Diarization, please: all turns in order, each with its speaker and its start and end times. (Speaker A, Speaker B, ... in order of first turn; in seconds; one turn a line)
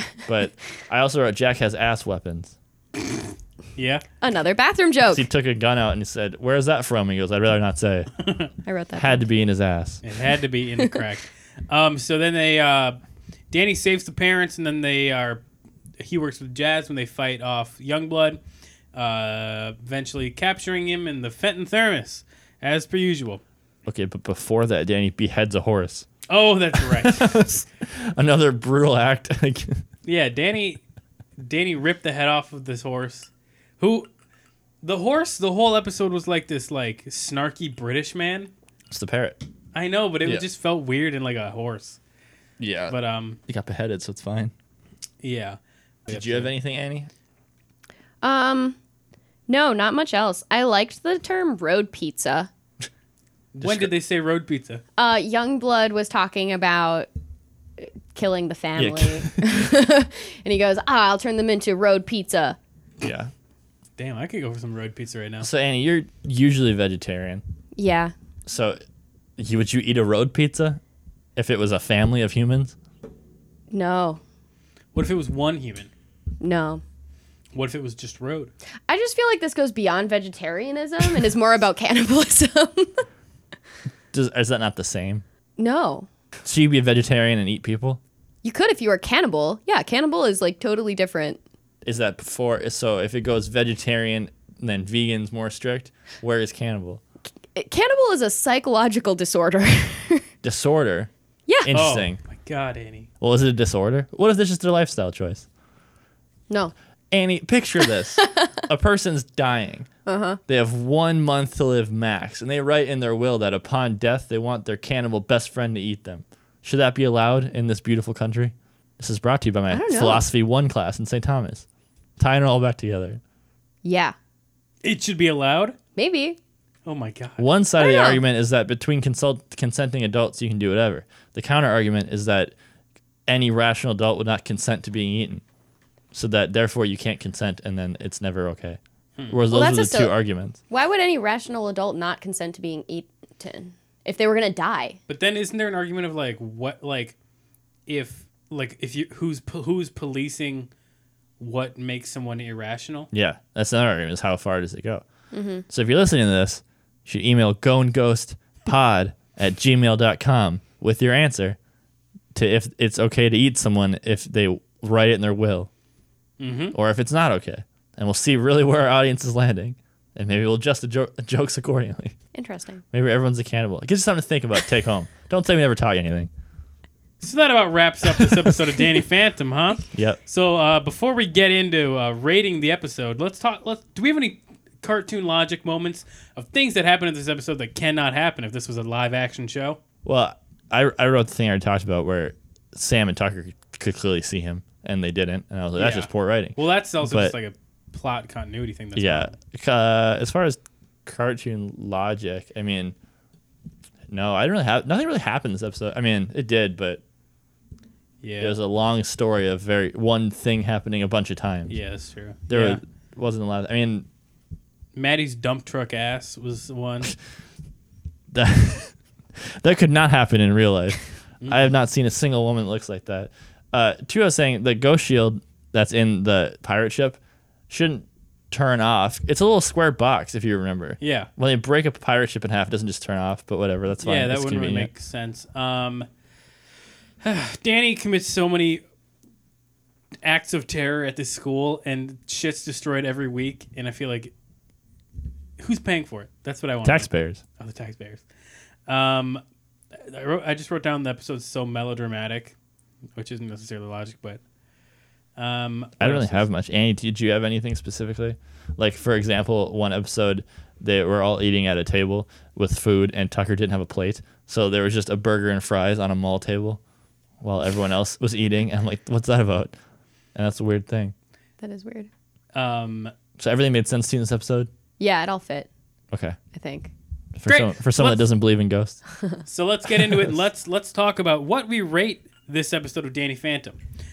Speaker A: 0.3-2.5
Speaker B: 3.8-4.0
Speaker C: 4.2-5.2
Speaker A: 5.1-8.1
Speaker B: 8.2-8.5
Speaker C: 8.6-9.3
Speaker A: 9.0-10.0
Speaker B: 10.0-13.0
Speaker B: 13.5-15.4
Speaker B: 16.0-18.4
Speaker B: 18.9-23.4
Speaker A: 23.9-26.1
Speaker B: 26.3-27.3
Speaker A: 26.8-29.8
Speaker B: 30.0-30.8
Speaker B: 31.4-34.1
Speaker B: 34.8-38.5
Speaker A: 38.9-39.4
Speaker B: 39.7-42.0
Speaker A: 42.6-43.0
Speaker B: 42.9-43.4
Speaker A: 43.5-44.5
Speaker B: 45.2-46.5
Speaker A: 46.1-47.1
Speaker C: 48.2-48.8
Speaker C: 49.5-52.5
Speaker B: 53.5-54.8
Speaker A: 53.6-53.9
Speaker C: 55.0-57.1
Speaker C: 57.8-62.6
Speaker A: 58.8-59.6
Speaker A: 63.0-63.3
Speaker B: 64.0-65.5
Speaker A: 65.4-67.4
Speaker C: 67.8-68.1
Speaker A: 68.5-68.8
Speaker A: 69.4-70.8
Speaker A: 71.3-72.7
Speaker C: 73.7-74.2
Speaker B: 74.9-75.9
Speaker C: 76.4-76.8
Speaker B: 77.5-78.5
Speaker C: 78.9-83.0
Speaker A: 84.1-85.2
Speaker C: 85.6-86.1
Speaker A: 86.4-88.0
Speaker C: 88.4-91.4
Speaker A: 91.8-97.0
Speaker C: 97.5-100.2
Speaker A: 100.4-101.1
Speaker A: 101.6-102.2
Speaker B: 101.7-103.1
Speaker A: 103.2-105.5
Speaker A: 107.1-109.9
Speaker C: 108.2-108.6
Speaker C: 110.0-110.4
Speaker A: 110.5-121.6
Speaker C: 119.7-120.2
Speaker A: 122.2-123.2
Speaker C: 123.8-124.1
Speaker B: 124.8-125.8
Speaker C: 126.0-126.4
Speaker B: 126.8-127.4
Speaker A: 127.4-132.5
Speaker C: 127.8-128.2
Speaker A: 133.3-135.4
Speaker A: 136.1-138.8
Speaker A: 139.3-140.6
Speaker C: 139.5-140.1
Speaker C: 140.7-145.0
Speaker B: 145.1-147.1
Speaker B: 147.9-150.7
Speaker B: 151.4-153.1
Speaker A: 153.1-155.0
Speaker C: 155.3-155.6
Speaker A: 155.7-161.6
Speaker A: 162.3-165.7
Speaker B: 166.4-166.7
Speaker A: 166.7-172.2
Speaker C: 172.3-172.8
Speaker A: 172.9-176.3
Speaker B: 177.2-189.8
Speaker A: 179.9-180.2
Speaker A: 190.0-197.3
Speaker B: 195.8-199.3
Speaker A: 198.9-202.9
Speaker A: 204.1-207.0
Speaker B: 208.2-208.6
Speaker A: 208.4-211.7
Speaker B: 211.7-212.8
Speaker A: 212.5-214.1
Speaker B: 214.9-217.1
Speaker A: 218.3-227.2
Speaker B: 221.4-221.7
Speaker A: 227.7-234.9
Speaker B: 231.0-231.3
Speaker B: 234.0-236.1
Speaker B: 237.2-238.8
Speaker B: 240.2-244.3
Speaker B: 245.6-248.2
Speaker A: 246.8-247.4
Speaker B: 248.9-249.4
Speaker B: 249.9-252.5
Speaker B: 253.2-254.4
Speaker B: 255.4-256.4
Speaker A: 256.0-266.8
Speaker A: 267.4-269.7
Speaker A: 270.3-271.1
Speaker C: 271.6-272.1
Speaker B: 272.5-273.1
Speaker A: 273.4-274.7
Speaker C: 275.0-275.7
Speaker A: 276.1-276.4
Speaker C: 276.5-276.9
Speaker A: 277.3-279.0
Speaker B: 277.4-278.3
Speaker B: 279.5-283.8
Speaker A: 280.0-280.4